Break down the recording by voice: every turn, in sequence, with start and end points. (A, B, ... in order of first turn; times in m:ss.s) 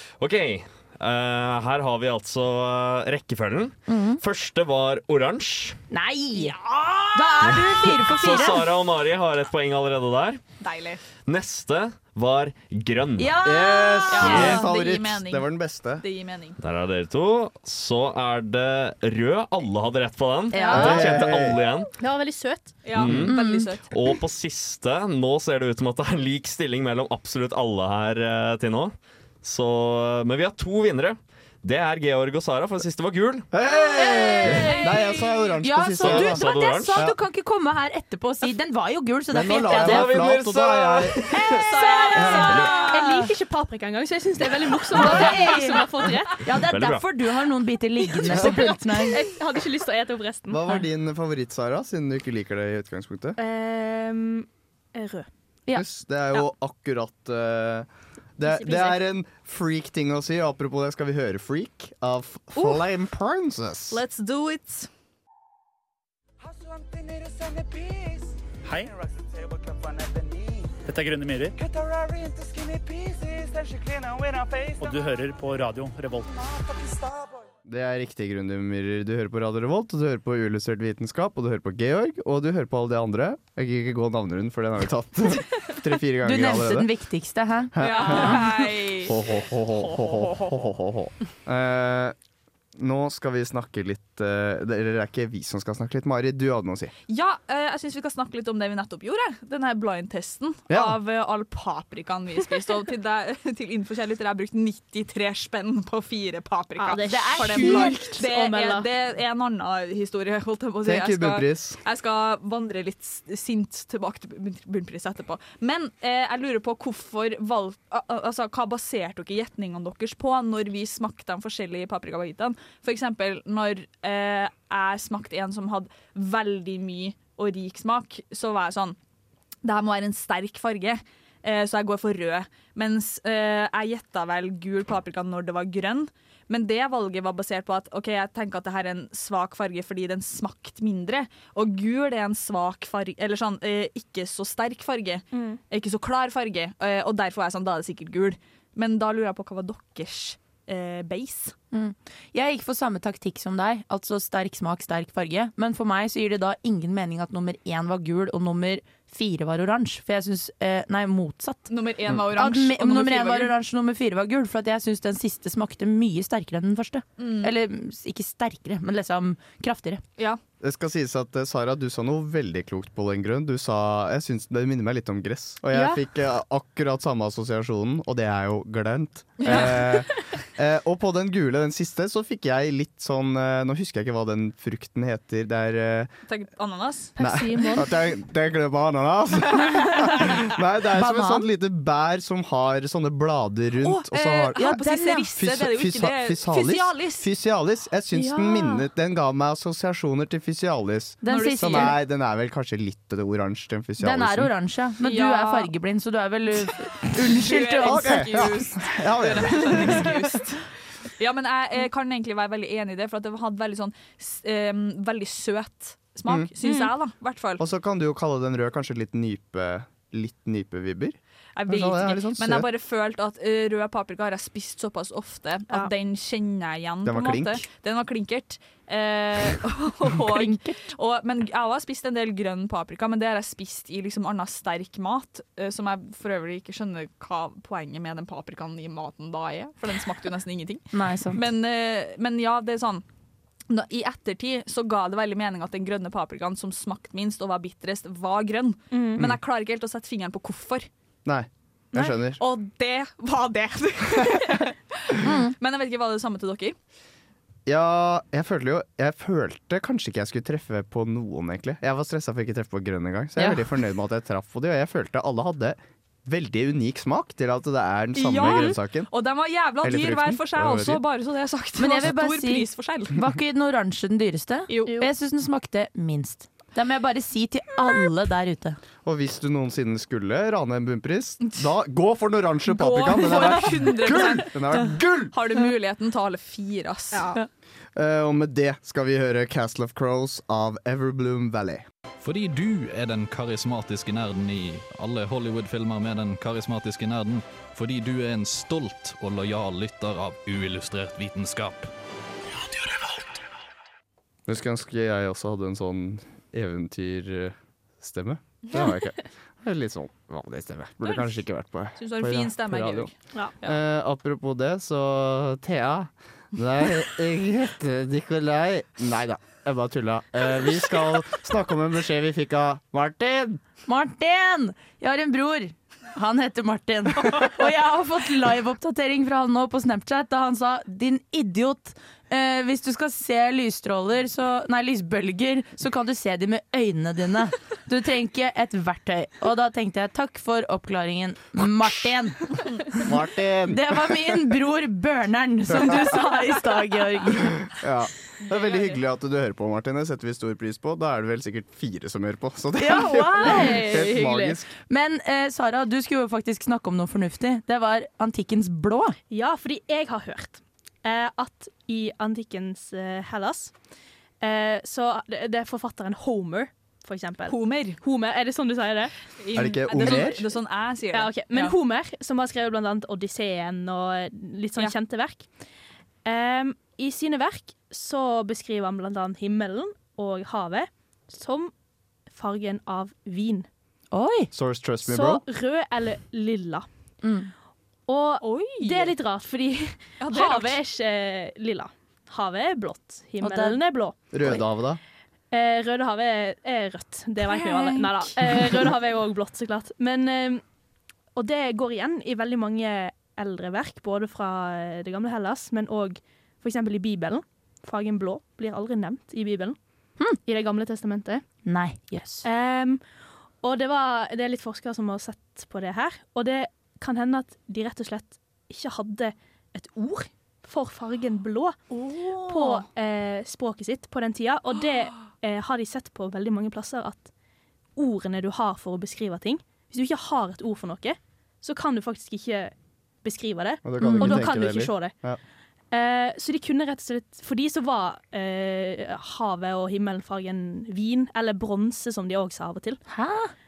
0:00.2-0:05.8 A
0:03.9-0:04.2 B
0:05.9-0:06.6 B
0:06.4-0:08.0 C
0:07.1-0:08.7 B
0:07.4-0:10.4 A
0:10.6-0:11.0 C
0:11.2-0:13.4 A
0:13.2-0:14.5 B
0:13.4-0:16.0 D
0:14.1-0:16.6 C
0:14.2-0:14.5 A
0:16.6-0:21.9 A
0:20.5-0:21.1 B
0:20.5-0:21.1 C
0:20.7-0:21.6 D
0:22.0-0:22.8 E
0:22.8-0:23.9 C
0:22.9-0:23.4 A
0:23.3-0:23.7 B
0:23.9-0:33.5 A
0:33.5-0:37.2 D
0:34.0-0:34.9 B
0:34.6-0:35.5 C
0:35.6-0:40.2 B
0:36.0-0:37.1 A
0:39.3-0:41.6 D
0:39.7-0:41.4 A
0:41.5-0:43.2 C
0:41.6-0:46.4 E
0:42.1-0:42.6 D
0:42.3-0:43.3 B
0:44.9-0:49.2 B
0:46.7-0:47.1 A
0:48.2-0:50.8 E
0:48.2-0:48.8 D
0:50.5-0:53.4 D
0:53.4-0:55.3 E
0:55.7-0:57.9 D
0:58.4-1:04.0 D
0:58.4-0:59.0 E
1:03.9-1:04.9 C
1:06.4-1:11.0 F
1:11.5-1:17.5 F
1:17.6-1:26.9 D
1:26.2-1:28.4 B
1:27.7-1:32.1 D
1:27.8-1:29.2 C
1:32.8-1:36.9 D
1:37.1-2:09.0 C
1:40.7-1:41.0 D
1:46.8-1:48.9 E
1:47.0-1:48.0 B
1:50.8-1:51.8 D
2:09.6-2:31.5 C
2:25.3-2:25.6 E
2:31.7-2:41.7 B
2:41.7-2:43.5 C
2:42.4-2:50.0 B
2:47.2-2:47.5 C
2:50.6-3:06.1 D
2:55.7-2:56.0 E
2:59.4-3:00.0 C
3:06.3-3:07.1 C
3:07.2-3:07.9 E
3:07.2-3:24.5 D
3:10.9-3:11.4 B
3:13.8-3:15.3 B
3:14.6-3:17.3 C
3:18.2-3:18.8 E
3:21.2-3:21.9 B
3:21.3-3:22.0 C
3:24.0-3:28.4 B
3:25.0-3:25.7 C
3:27.2-3:30.6 C
3:27.8-3:30.2 D
3:31.2-3:37.6 C
3:36.6-3:36.9 E
3:37.6-3:42.7 D
3:41.6-4:03.0 C
3:47.0-3:47.6 D
3:50.3-3:50.8 B
4:00.9-4:01.4 B
4:03.7-4:10.9 C
4:08.9-4:09.2 E
4:11.2-4:12.4 D
4:12.4-4:16.8 C
4:15.2-4:15.5 B
4:17.6-4:29.1 D
4:23.4-4:23.6 B
4:28.1-4:33.2 C
4:29.8-4:31.0 D
4:31.8-4:38.8 B
4:34.7-4:35.0 C
4:39.0-4:45.3 D
4:41.4-4:41.7 C
4:42.7-4:47.4 C
4:48.0-4:51.8 D
4:52.2-5:01.9 G
5:04.5-5:13.1 D
5:12.0-5:13.8 C
5:13.6-5:23.6 D
5:23.9-5:43.0 B
5:43.0-5:44.4 D
5:43.7-5:47.5 B
5:45.7-5:46.2 D
5:47.3-5:54.7 D
5:48.5-5:48.9 C
5:52.8-5:54.1 B
5:53.5-5:54.3 E
5:54.9-5:59.2 B
5:59.3-6:03.7 E
6:04.4-6:09.1 E
6:07.5-6:08.0 C
6:09.4-6:11.8 C
6:09.5-6:10.4 D
6:10.0-6:10.3 E
6:11.1-6:15.5 E
6:16.2-6:21.7 E
6:22.3-6:23.7 E
6:24.1-6:24.5 B
6:24.5-6:25.4 D
6:25.0-6:26.9 E
6:27.2-6:27.5 B
6:28.1-6:34.1 E
6:28.4-6:29.1 C
6:30.2-6:30.8 C
6:33.4-6:33.8 B
6:34.3-6:35.0 D
6:35.5-6:40.6 E
6:37.4-6:38.6 C
6:41.4-6:49.8 E
6:50.4-6:51.4 E
6:51.6-6:52.5 B
6:52.4-6:53.0 E
6:53.6-7:07.3 E
7:02.3-7:02.9 C
7:08.0-7:15.1 E
7:13.8-7:15.4 D
7:14.0-7:14.5 B
7:15.9-7:23.0 E
7:23.1-7:23.5 B